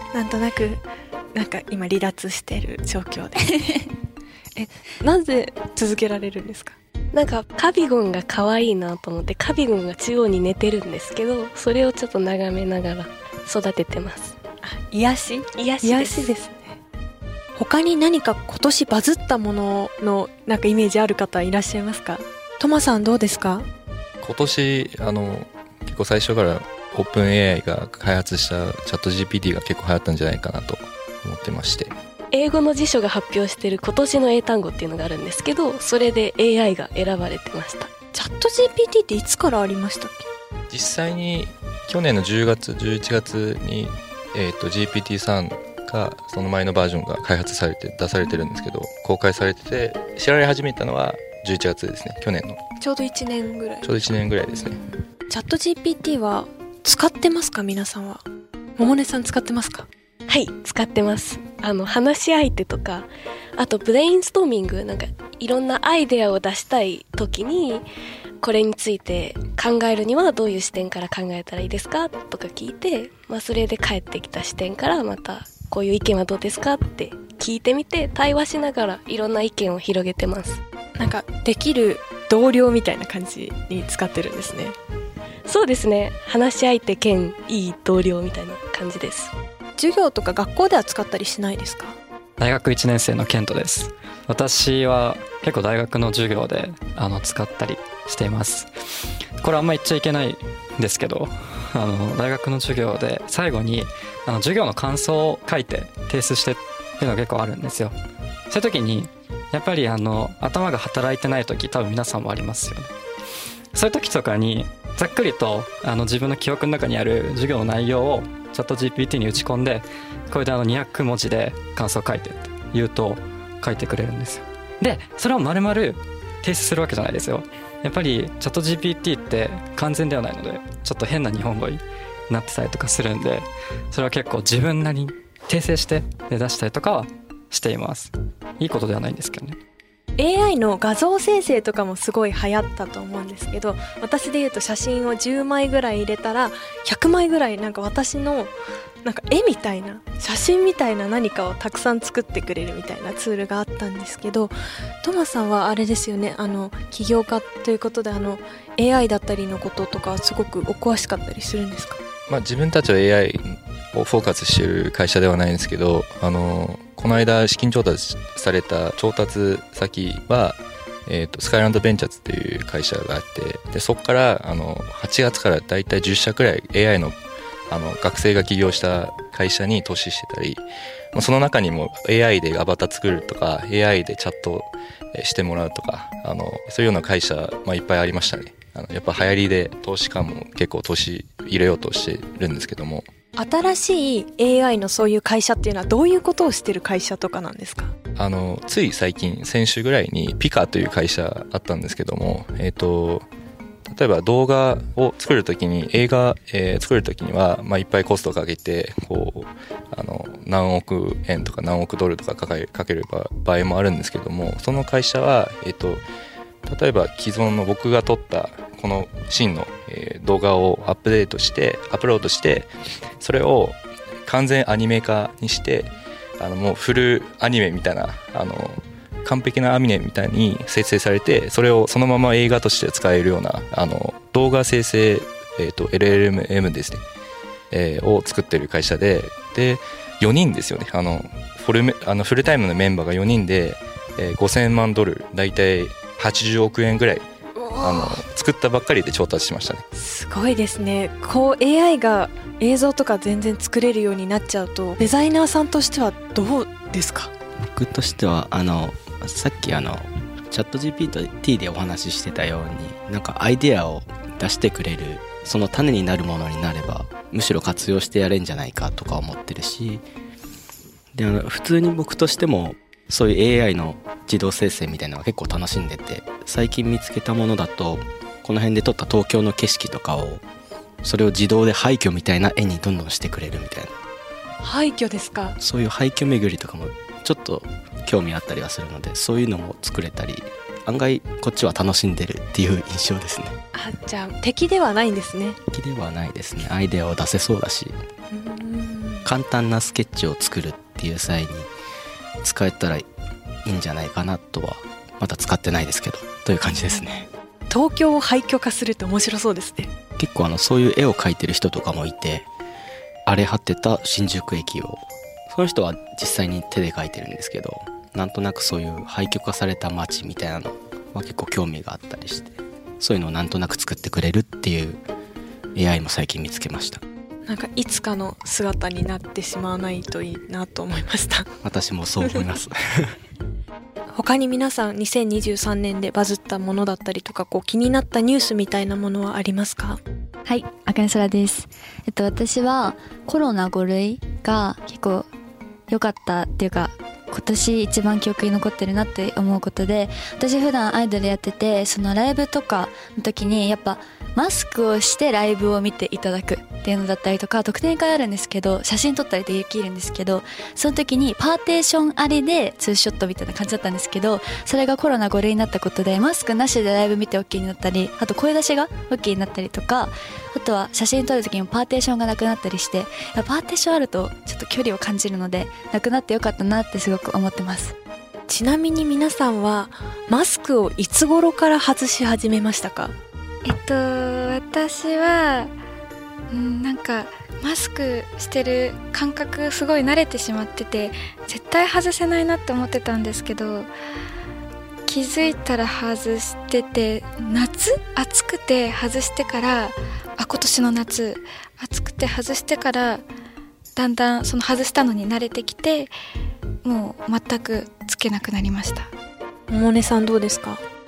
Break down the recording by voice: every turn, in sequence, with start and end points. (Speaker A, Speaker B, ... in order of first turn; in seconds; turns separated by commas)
Speaker A: 0.1-0.8, Speaker A: 1.3-3.7, Speaker A: 4.6-6.8, Speaker B: 7.1-14.4, Speaker A: 14.6-16.8, Speaker B: 15.8-16.2, Speaker A: 17.6-23.7, Speaker C: 24.2-31.9, Speaker B: 32.3-37.9, Speaker A: 38.1-40.3, Speaker C: 40.7-52.6, Speaker A: 52.8-53.9, Speaker C: 53.8-54.8, Speaker A: 54.5-54.8, Speaker A: 55.3-58.2, Speaker A: 58.8-59.9, Speaker B: 60.3-67.8, Speaker B: 68.4-80.6, Speaker A: 81.0-84.8, Speaker B: 85.5-89.3, Speaker A: 89.8-92.0, Speaker D: 92.4-98.7, Speaker D: 99.4-107.9, Speaker D: 108.5-112.9, Speaker D: 113.7-139.6, Speaker A: 140.2-148.5, Speaker A: 149.0-162.0, Speaker C: 162.3-177.1, Speaker C: 177.7-180.6, Speaker C: 181.1-193.1, Speaker A: 193.4-197.9, Speaker C: 198.2-203.3, Speaker C: 203.8-216.0, Speaker C: 216.7-222.7, Speaker C: 223.2-237.0, Speaker C: 237.7-247.2, Speaker A: 247.6-248.2, Speaker C: 247.8-249.8, Speaker A: 249.9-257.3, Speaker E: 257.6-270.0, Speaker E: 271.1-280.4, Speaker E: 281.0-283.9, Speaker A: 284.6-285.6, Speaker E: 285.6-293.6, Speaker A: 293.7-295.6, Speaker E: 295.7-297.9, Speaker A: 298.3-299.2, Speaker E: 299.2-301.7, Speaker E: 302.4-303.1, Speaker E: 303.6-307.3, Speaker A: 306.7-307.0, Speaker A: 307.7-309.9, Speaker E: 310.2-312.5, Speaker E: 313.2-325.0, Speaker E: 325.7-327.0, Speaker A: 327.4-331.6, Speaker E: 331.6-333.1, Speaker A: 334.1-340.0, Speaker F: 340.4-345.3, Speaker F: 345.9-377.9, Speaker A: 378.5-383.1, Speaker G: 383.6-385.7, Speaker G: 386.5-393.9, Speaker G: 395.1-403.2, Speaker G: 403.9-406.1, Speaker G: 406.8-409.1, Speaker A: 409.7-410.8